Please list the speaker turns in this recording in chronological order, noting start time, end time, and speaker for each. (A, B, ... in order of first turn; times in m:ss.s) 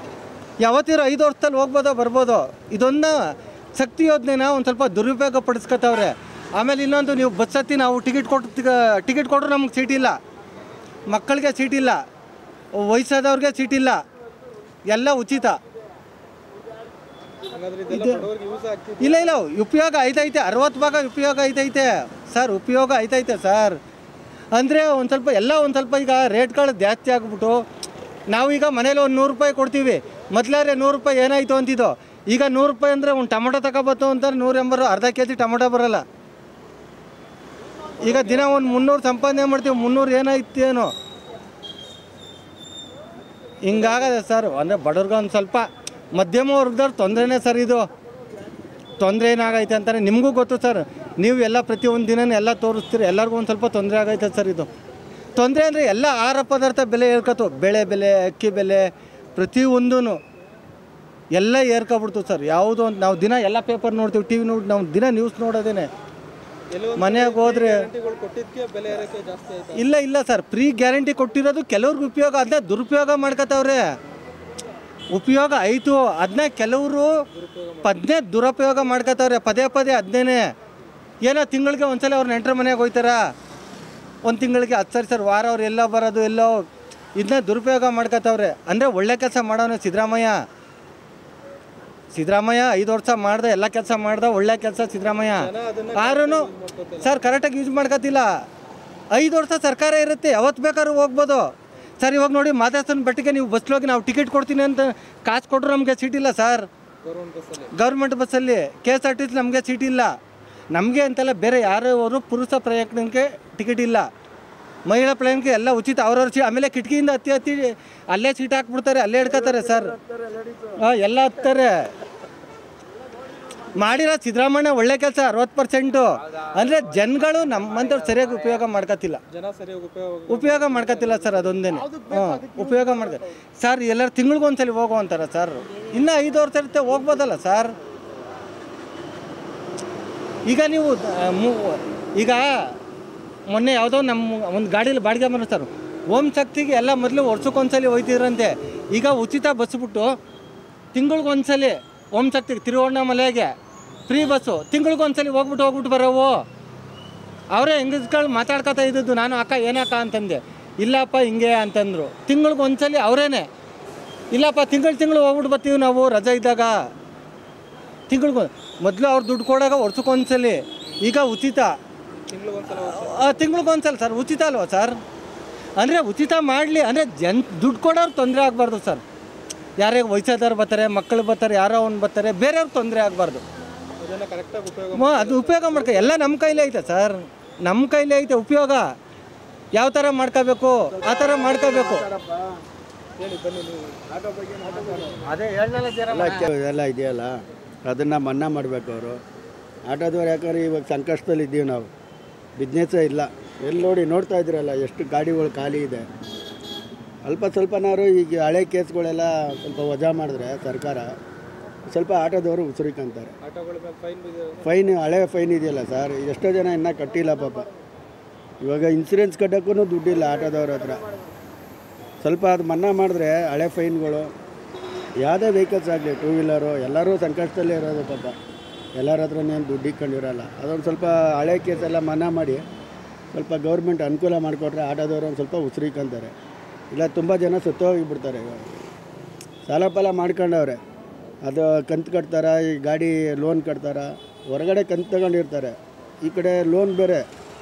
0:00.6-0:03.2 A
0:03.7-0:10.2 A
0:11.1-0:12.0 A
0:12.8-0:14.0 A
0:14.9-0:15.6 A
0:17.4-0:19.4 B
0:17.9-0:18.3 A
0:19.0-0:23.8 A
0:24.5-0:27.6 A
0:28.3-0:36.0 A
0:38.0-0:40.9 A
0:43.6-0:47.8 A
0:49.0-0:54.7 A
0:55.4-1:00.2 A
1:01.3-1:05.9 A
1:06.7-1:09.9 B
1:07.0-1:07.8 A
1:09.7-1:13.8 A
1:15.1-1:17.1 A
1:17.3-1:18.0 B
1:17.8-1:20.4 A
1:21.2-1:23.2 A
1:24.2-1:26.6 A
1:27.2-1:30.4 A
1:32.1-1:36.5 A
1:35.4-1:37.2 B
1:37.0-1:38.3 A
1:39.1-1:41.4 A
1:42.0-1:46.7 A
1:47.0-1:47.7 B
1:47.7-1:50.1 A
1:50.7-1:54.0 A
1:54.8-1:59.9 A
2:00.0-2:00.4 C
2:00.8-2:01.9 A
2:03.7-2:09.2 A
2:09.3-2:13.2 B
2:10.3-2:17.7 A
2:20.5-2:22.5 A
2:23.5-2:30.1 A
2:30.9-2:33.5 A
2:34.1-2:36.4 A
2:37.5-2:43.5 A
2:44.3-2:46.8 A
2:48.1-2:51.7 A
2:52.2-2:53.3 B
2:52.8-2:55.0 A
2:55.8-2:59.0 A
2:59.8-3:03.4 A
3:04.0-3:06.2 B
3:04.9-3:08.8 A
3:09.7-3:12.1 A
3:11.0-3:12.5 C
3:13.2-3:14.0 B
3:14.1-3:15.1 C
3:14.6-3:15.2 B
3:15.3-3:16.4 A
3:16.1-3:17.3 C
3:17.8-3:19.2 C
3:19.8-3:21.9 C
3:22.6-3:26.0 C
3:27.2-3:31.1 C
3:31.9-3:33.3 C
3:33.4-3:34.8 B
3:34.6-3:37.7 C
3:38.6-3:41.0 C
3:42.2-3:44.3 C
3:45.2-3:48.3 C
3:49.0-3:52.6 C
3:53.3-3:56.3 C
3:56.9-3:58.7 C
3:59.6-4:00.8 C
4:01.4-4:07.2 C